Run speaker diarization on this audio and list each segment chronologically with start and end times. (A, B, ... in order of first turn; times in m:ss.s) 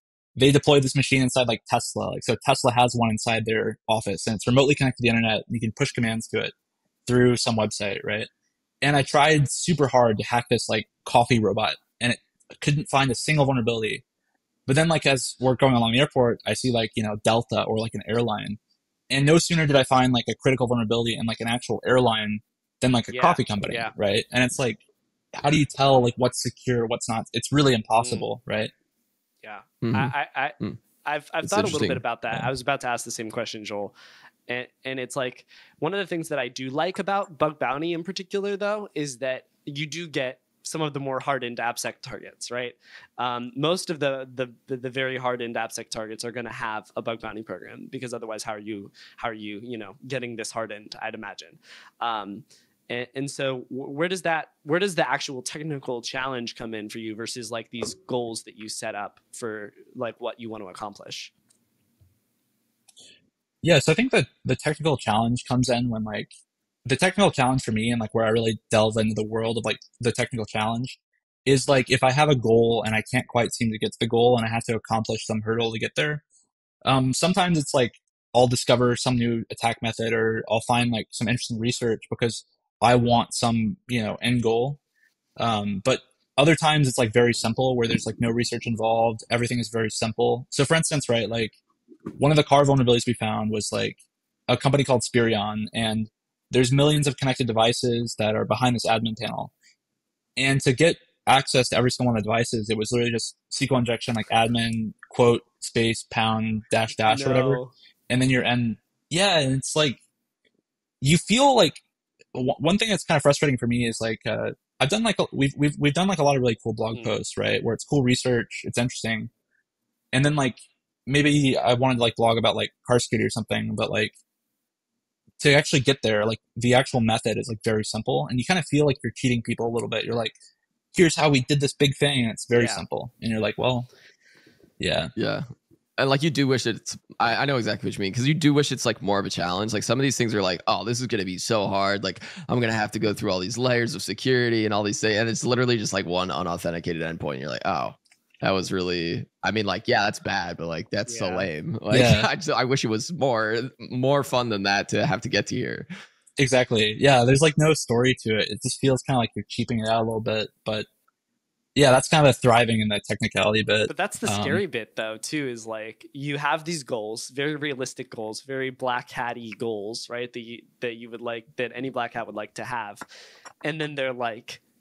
0:00.4-0:06.5 A
0:07.1-0:08.3 A
0:08.8-0:14.0 A
0:14.7-0:18.6 A
0:19.1-0:24.8 A
0:23.1-0:23.9 B
0:25.4-0:28.7 A
0:28.0-0:28.2 B
0:29.4-0:33.9 B
0:29.8-0:30.8 C
0:31.4-0:32.5 C
0:34.5-1:01.3 B
1:03.6-1:06.3 A
1:06.8-1:16.2 A
1:16.8-1:24.8 A
1:25.4-1:31.5 A
1:32.2-1:39.5 A
1:40.4-1:50.0 A
1:47.0-1:47.7 B
1:51.0-1:51.8 A
1:52.3-1:59.3 A
2:00.1-2:04.1 A
2:05.4-2:10.3 A
2:10.9-2:13.9 A
2:12.5-2:12.8 B
2:14.8-2:15.1 A
2:15.2-2:15.4 C
2:16.0-2:35.9 C
2:31.1-2:31.5 B
2:31.9-2:32.3 A
2:36.4-2:40.9 A
2:41.8-2:44.6 A
2:43.9-2:53.0 B
2:53.6-2:54.6 B